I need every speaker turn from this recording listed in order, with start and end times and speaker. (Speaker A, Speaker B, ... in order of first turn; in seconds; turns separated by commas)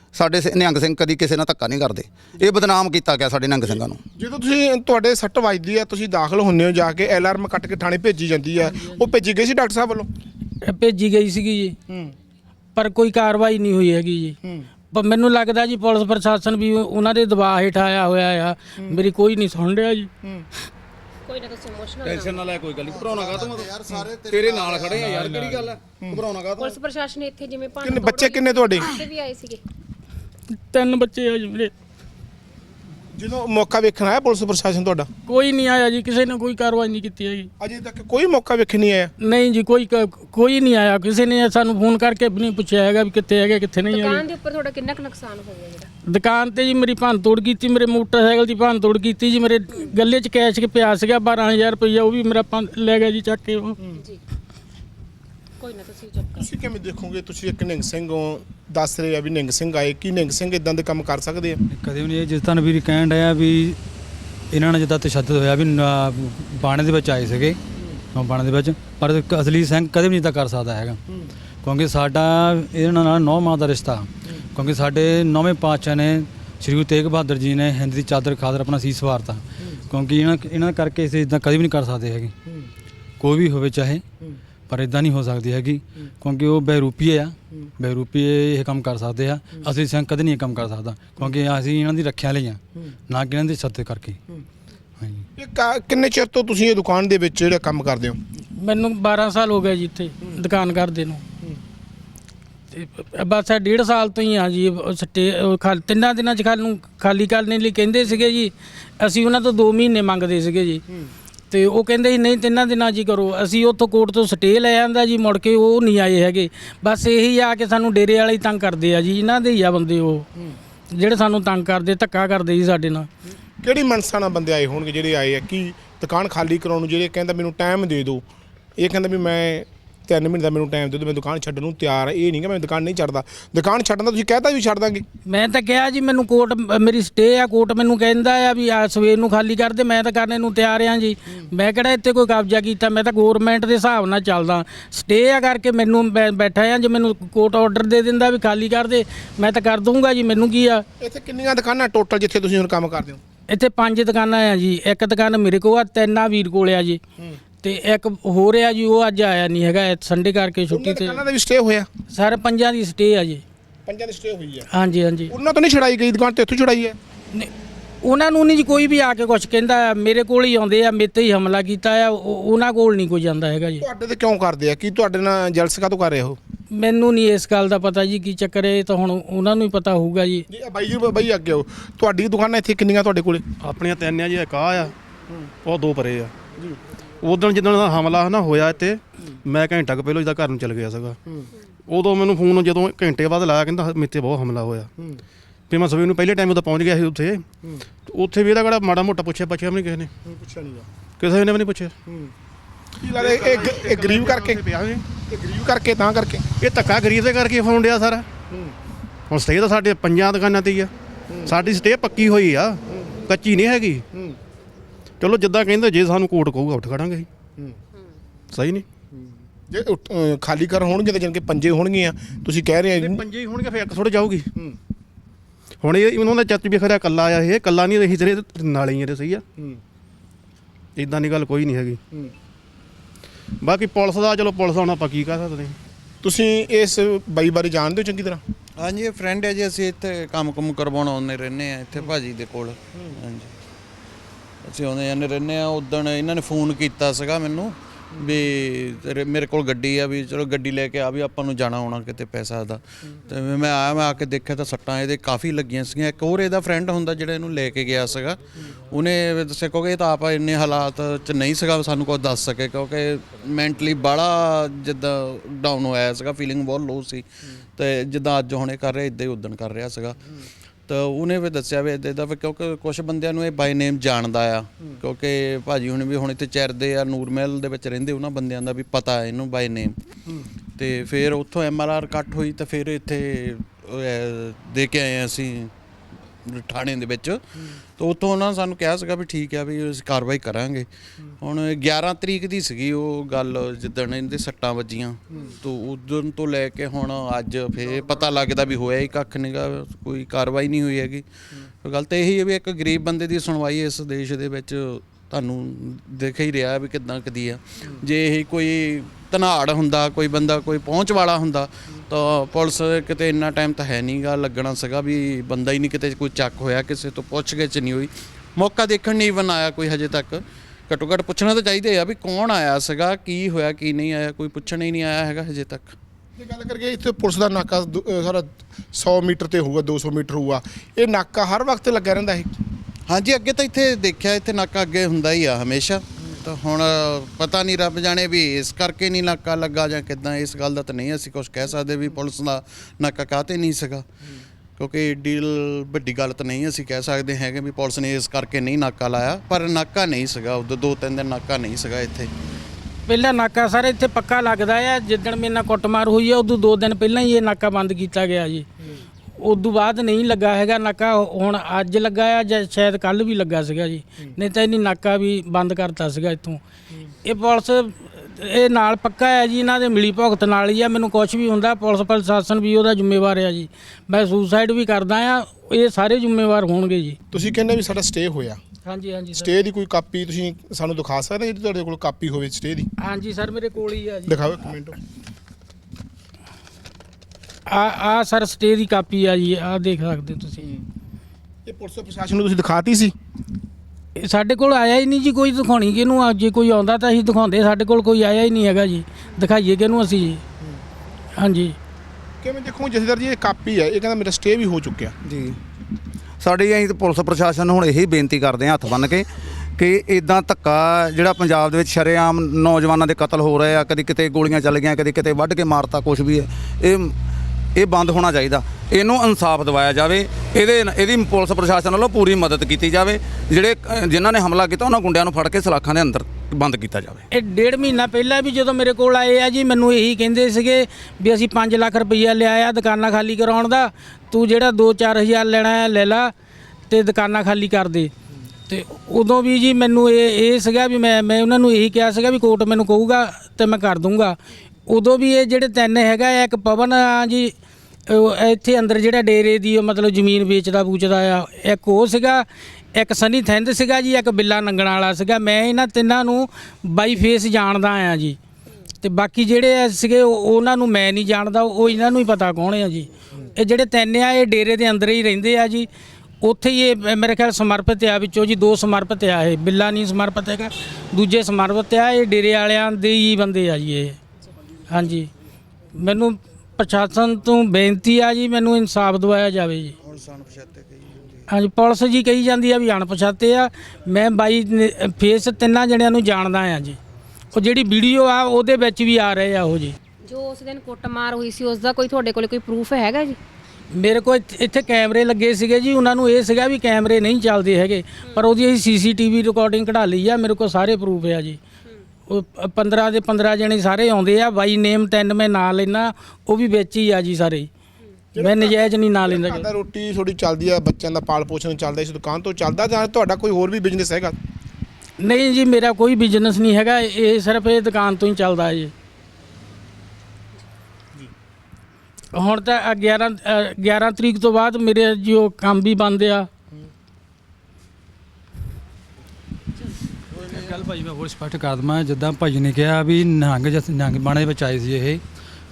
Speaker A: 0.1-4.0, Speaker B: 4.2-10.1, Speaker C: 10.6-11.8, Speaker C: 12.8-14.4, Speaker C: 14.9-20.1, Speaker B: 20.2-20.5, Speaker D: 21.3-22.4, Speaker A: 22.0-26.8, Speaker D: 26.6-29.6, Speaker B: 27.8-28.9, Speaker C: 30.5-31.7, Speaker B: 33.1-35.1, Speaker C: 35.3-37.5, Speaker B: 37.6-39.1, Speaker C: 39.2-44.3, Speaker D: 43.8-45.9, Speaker C: 46.0-53.8, Speaker D: 55.6-56.5, Speaker B: 56.4-61.6, Speaker E: 61.7-63.8, Speaker E: 64.5-67.6, Speaker E: 68.1-71.0, Speaker E: 71.6-82.3, Speaker E: 83.2-84.0, Speaker E: 84.7-94.2, Speaker E: 95.0-95.2, Speaker B: 95.4-98.2, Speaker C: 98.6-101.2, Speaker C: 102.7-110.8, Speaker C: 111.5-120.3, Speaker C: 120.9-123.1, Speaker B: 123.6-128.2, Speaker B: 128.8-135.1, Speaker C: 135.3-150.9, Speaker B: 151.0-153.2, Speaker C: 153.5-157.0, Speaker C: 157.6-161.2, Speaker B: 160.7-161.9, Speaker C: 162.1-163.4, Speaker B: 163.9-164.7, Speaker C: 164.7-165.3, Speaker B: 165.3-167.0, Speaker C: 168.0-173.8, Speaker B: 173.8-176.4, Speaker C: 176.7-180.5, Speaker B: 180.5-183.5, Speaker F: 183.6-184.9, Speaker F: 185.6-186.3, Speaker F: 187.2-191.2, Speaker F: 191.9-194.9, Speaker F: 195.7-197.5, Speaker F: 198.1-200.1, Speaker B: 200.3-200.9, Speaker F: 201.2-201.9, Speaker B: 202.1-202.3, Speaker F: 203.0-205.1, Speaker B: 203.0-204.6, Speaker B: 205.2-206.5, Speaker F: 206.6-208.3, Speaker F: 209.3-210.9, Speaker F: 211.4-214.1, Speaker F: 215.2-217.3, Speaker F: 218.5-218.9, Speaker B: 219.2-223.2, Speaker F: 222.9-224.5, Speaker F: 225.8-229.4, Speaker F: 231.0-232.0, Speaker F: 233.6-235.8, Speaker B: 236.2-238.4, Speaker G: 238.8-243.5, Speaker G: 244.7-267.2, Speaker G: 267.8-270.2, Speaker G: 270.9-280.0, Speaker G: 280.8-285.7, Speaker G: 286.4-290.9, Speaker G: 291.4-301.2, Speaker G: 301.8-325.9, Speaker B: 326.4-332.6, Speaker G: 333.1-344.1, Speaker G: 344.8-352.3, Speaker C: 353.1-358.7, Speaker C: 359.4-366.6, Speaker C: 367.2-377.2, Speaker B: 377.3-378.6, Speaker C: 378.9-379.6, Speaker B: 379.4-382.9, Speaker C: 383.0-384.5, Speaker B: 384.3-385.0, Speaker C: 387.7-390.7, Speaker B: 391.7-393.1, Speaker C: 394.2-400.4, Speaker C: 401.4-401.8, Speaker B: 402.4-405.2, Speaker A: 405.2-405.6, Speaker A: 406.4-417.1, Speaker A: 417.8-427.2, Speaker C: 427.3-436.3, Speaker C: 436.9-438.1, Speaker C: 438.7-444.4, Speaker C: 444.9-447.5, Speaker C: 448.1-458.4, Speaker C: 459.0-465.9, Speaker C: 466.4-474.2, Speaker C: 474.9-475.3, Speaker C: 475.9-480.0, Speaker G: 480.0-481.4, Speaker C: 481.5-487.0, Speaker C: 487.5-490.0, Speaker D: 490.2-493.4, Speaker C: 493.9-501.6, Speaker C: 502.3-507.7, Speaker B: 508.4-514.4, Speaker C: 508.4-509.7, Speaker C: 515.2-518.9, Speaker C: 522.3-526.5, Speaker E: 530.3-535.2